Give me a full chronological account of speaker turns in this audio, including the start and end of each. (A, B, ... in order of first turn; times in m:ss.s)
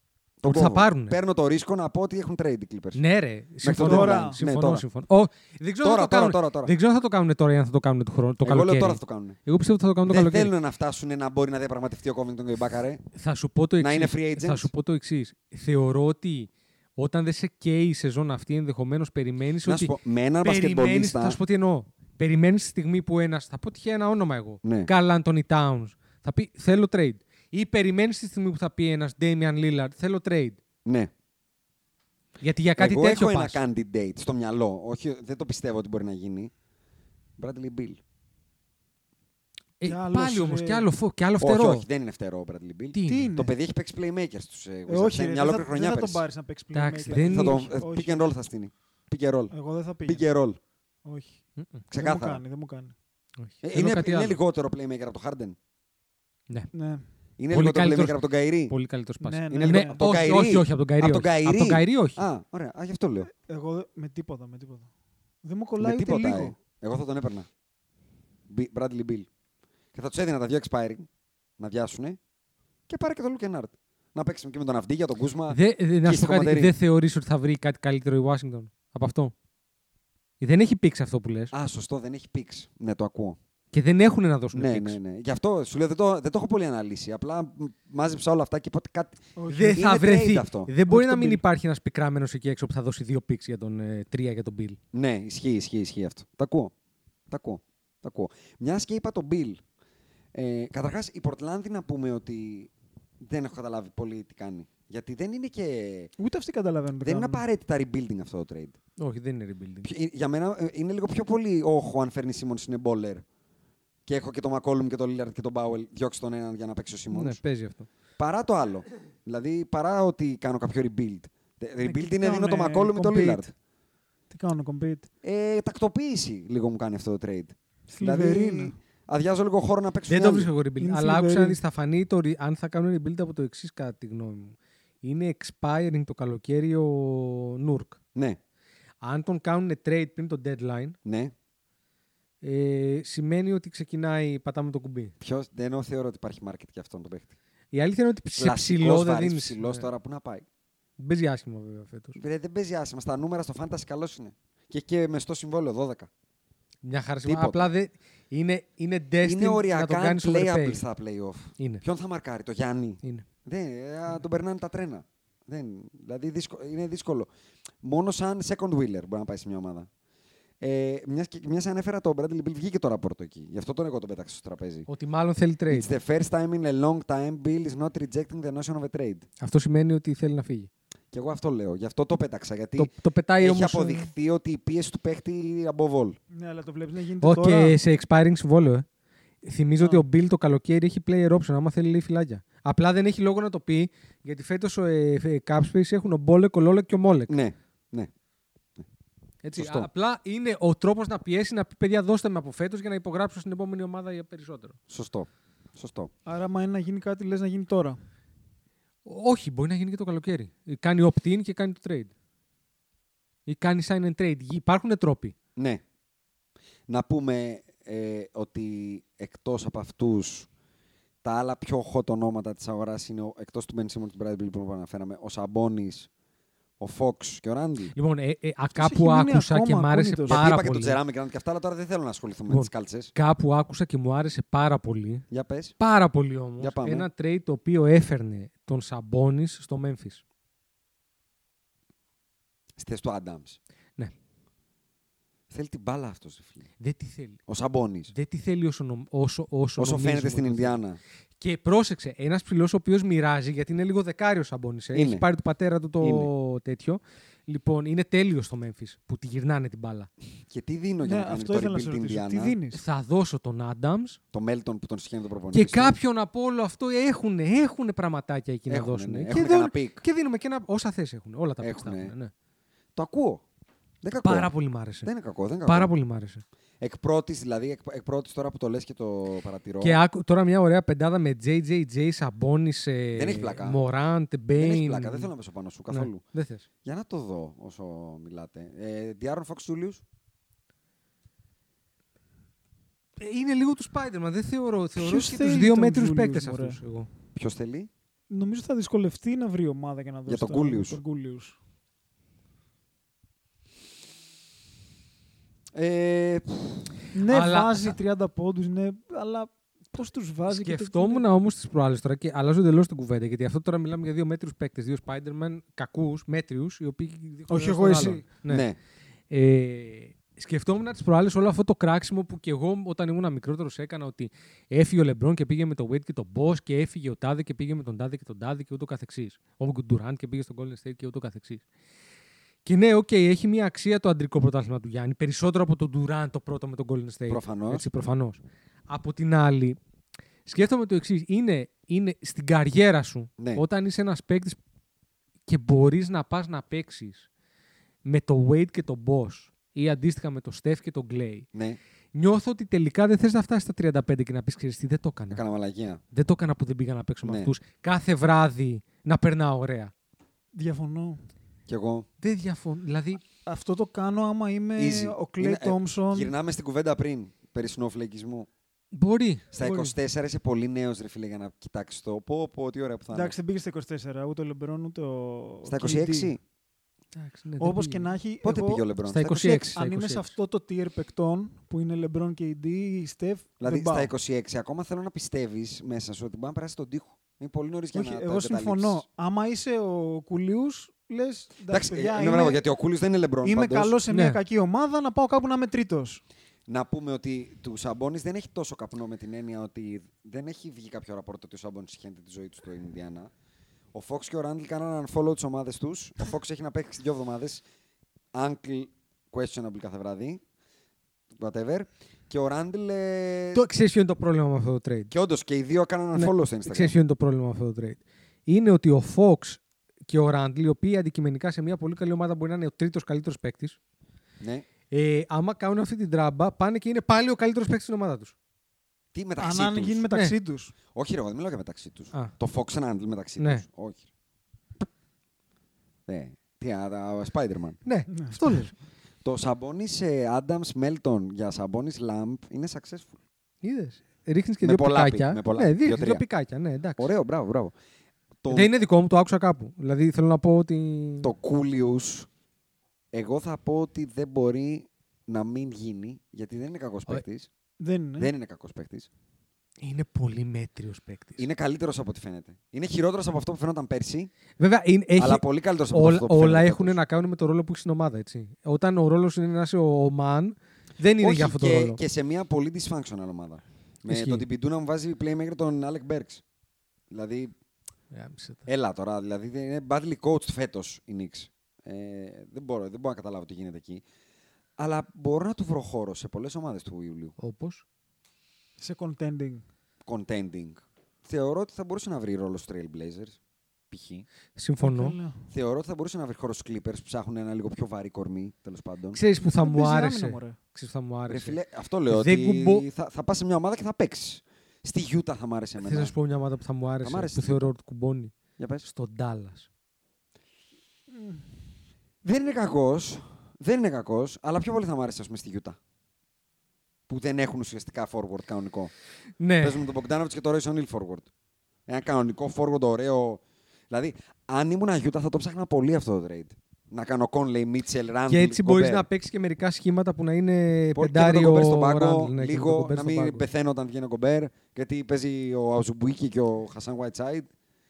0:00.4-0:03.0 A
0:00.4-0:01.2 B
0:03.0-0:10.5 B
0:03.6-0:04.8 A
0:03.8-0:04.4 C
0:05.8-0:06.7 A
0:08.4-0:09.4 A
0:10.1-0:13.0 A
0:13.2-0:19.9 B
0:13.8-0:14.7 A
0:19.6-0:21.4 A
0:20.4-0:30.6 B
0:24.6-0:24.9 A
0:30.8-0:31.1 A
0:32.4-0:33.6 B
0:32.8-0:36.5 A
0:37.4-0:38.0 A
0:39.8-0:41.8 B
0:39.8-0:40.9 C
0:41.4-0:46.2 A
0:42.9-0:43.3 B
0:43.0-0:43.5 C
0:44.9-0:48.3 C
0:46.7-0:47.7 B
0:47.1-0:50.6 A
0:49.5-0:50.2 C
0:51.0-0:51.4 C
0:51.6-0:51.8 B
0:51.9-0:52.4 A
0:51.9-0:52.9 C
0:53.4-0:54.4 B
0:53.6-0:55.6 A
0:56.7-0:57.0 C
0:57.4-0:58.7 A
0:57.5-1:02.2 B
0:59.2-1:00.1 C
0:59.5-1:03.3 A
1:03.4-1:04.9 C
1:05.4-1:06.6 C
1:05.8-1:07.5 A
1:08.5-1:09.3 A
1:09.9-1:11.1 A
1:11.6-1:12.2 A
1:12.9-1:16.7 A
1:15.5-1:19.3 B
1:20.4-1:21.5 B
1:21.5-1:23.4 A
1:23.7-1:25.0 B
1:24.5-1:30.7 A
1:29.4-1:29.9 C
1:29.5-1:34.8 B
1:30.9-1:31.4 C
1:34.9-1:36.7 A
1:37.3-1:39.6 A
1:40.3-1:42.7 A
1:43.2-1:46.1 A
1:46.2-1:47.4 C
1:47.0-1:48.8 A
1:49.0-1:49.9 B
1:49.8-1:53.2 A
1:54.0-1:57.4 A
1:57.1-1:57.9 B
1:58.2-2:03.5 A
2:01.8-2:03.5 C
2:04.3-2:05.1 C
2:05.2-2:10.5 A
2:07.9-2:08.7 C
2:10.1-2:18.0 B
2:10.8-2:11.6 C
2:19.0-2:21.0 B
2:21.0-2:21.3 A
2:22.4-2:25.1 B
2:25.2-2:27.3 A
2:27.7-2:29.8 B
2:28.4-2:30.4 A
2:31.0-2:32.2 B
2:32.2-2:36.1 A
2:36.8-2:40.8 B
2:37.2-2:37.7 A
2:39.2-2:47.3 A
2:47.8-2:49.9 A
2:50.6-2:54.9 A
2:54.9-2:55.9 B
2:55.7-2:59.2 A
2:59.4-3:00.7 B
3:01.1-3:06.2 A
3:02.8-3:04.1 B
3:06.3-3:07.7 C
3:07.2-3:08.8 B
3:09.4-3:17.3 B
3:17.3-3:18.1 A
3:19.4-3:24.8 B
3:19.5-3:19.9 A
3:24.9-3:26.1 A
3:26.2-3:28.0 C
3:29.0-3:32.1 B
3:33.5-3:35.3 B
3:35.6-3:35.8 A
3:36.9-3:40.5 A
3:41.2-3:46.1 A
3:46.8-3:47.9 A
3:47.9-3:51.0 B
3:48.7-3:50.4 C
3:50.3-3:53.1 A
3:52.5-3:55.2 B
3:55.3-3:55.8 A
3:55.8-4:00.2 B
3:56.6-3:57.1 A
4:02.8-4:03.6 A
4:05.5-4:06.7 A
4:06.8-4:07.4 B
4:07.5-4:08.1 A
4:08.1-4:10.8 B
4:09.8-4:11.0 A
4:11.4-4:20.1 B
4:14.9-4:15.2 A
4:16.0-4:16.3 A
4:20.5-4:22.5 A
4:21.0-4:22.8 C
4:22.7-4:24.2 B
4:24.3-4:26.0 A
4:25.5-4:32.3 B
4:28.7-4:30.0 A
4:31.6-4:32.1 A
4:33.0-4:33.4 A
4:34.0-4:34.5 A
4:34.2-4:35.1 B
4:35.0-4:35.9 A
4:35.6-4:36.4 B
4:36.8-4:40.0 A
4:39.8-4:45.3 B
4:43.1-4:43.8 A
4:44.6-4:46.2 A
4:45.9-4:46.6 B
4:46.8-4:50.0 A
4:53.2-4:57.1 B
4:55.0-4:56.8 C
4:57.3-4:57.9 A
4:58.3-5:01.6 C
5:00.3-5:01.0 A
5:05.7-5:06.9 A
5:07.1-5:11.2 C
5:07.3-5:08.0 B
5:10.5-5:18.7 B
5:17.5-5:18.2 C
5:18.5-5:18.8 A
5:19.3-5:31.6 B
5:32.6-5:39.8 B
5:37.3-5:37.8 A
5:40.4-5:44.6 B
5:43.4-5:43.6 A
5:45.5-5:47.3 B
5:48.0-5:51.5 B
5:51.5-5:51.8 A
5:52.1-5:55.4 B
5:55.3-5:56.0 A
5:56.1-5:59.9 B
5:57.2-5:57.5 A
6:00.5-6:01.2 C
6:01.7-6:02.1 A
6:02.2-6:03.2 B
6:03.4-6:06.3 C
6:04.8-6:08.5 A
6:08.9-6:09.9 B
6:09.5-6:13.4 A
6:13.1-6:16.3 C
6:15.6-6:16.4 A
6:17.1-6:18.1 B
6:17.6-6:18.8 C
6:18.4-6:19.7 A
6:19.0-6:20.3 B
6:19.4-6:24.1 C
6:23.6-6:29.0 A
6:27.9-6:32.6 C
6:31.7-6:34.0 A
6:33.4-6:36.2 C
6:34.1-6:34.4 B
6:36.7-6:43.3 A
6:43.9-6:47.6 A
6:48.3-6:50.4 A
6:51.4-6:53.6 A
6:53.5-6:55.1 B
6:55.1-6:56.9 A
6:56.1-7:03.8 B
7:04.4-7:04.6 A
7:04.9-7:08.3 B
7:09.1-7:10.0 A
7:09.4-7:10.7 C
7:10.9-7:14.0 A
7:16.1-7:17.8 A
7:17.8-7:18.7 B
7:18.2-7:18.6 C
7:19.2-7:23.1 A
7:23.6-7:27.1 B
7:24.6-7:26.2 A
7:27.0-7:27.7 A
7:28.4-7:28.7 A
7:28.5-7:31.3 B
7:31.2-7:32.3 A
7:33.1-7:37.5 A
7:37.8-7:38.3 C
7:38.2-7:39.1 A
7:39.8-7:41.4 B
7:41.4-7:44.3 A
7:44.6-7:52.0 B
7:45.2-7:47.0 A
7:51.2-7:56.4 A
7:54.1-7:54.4 B
7:57.1-7:57.5 A
7:58.1-7:58.6 B
7:58.7-8:04.0 A
8:04.8-8:07.3 A
8:07.4-8:07.8 B
8:08.8-8:09.6 C
8:10.0-8:13.4 A
8:13.9-8:14.2 A
8:14.6-8:15.2 B
8:14.8-8:15.4 C
8:15.5-8:19.2 A
8:19.1-8:22.8 B
8:19.5-8:20.6 C
8:21.3-8:26.1 A
8:25.8-8:28.3 B
8:27.0-8:27.7 A
8:28.6-8:28.9 A
8:28.8-8:29.7 B
8:31.1-8:31.5 C
8:32.2-8:35.8 A
8:37.1-8:38.9 A
8:39.4-8:39.8 B
8:39.6-8:41.3 A
8:41.9-8:49.0 A
8:48.3-8:53.4 B
8:50.9-8:57.5 A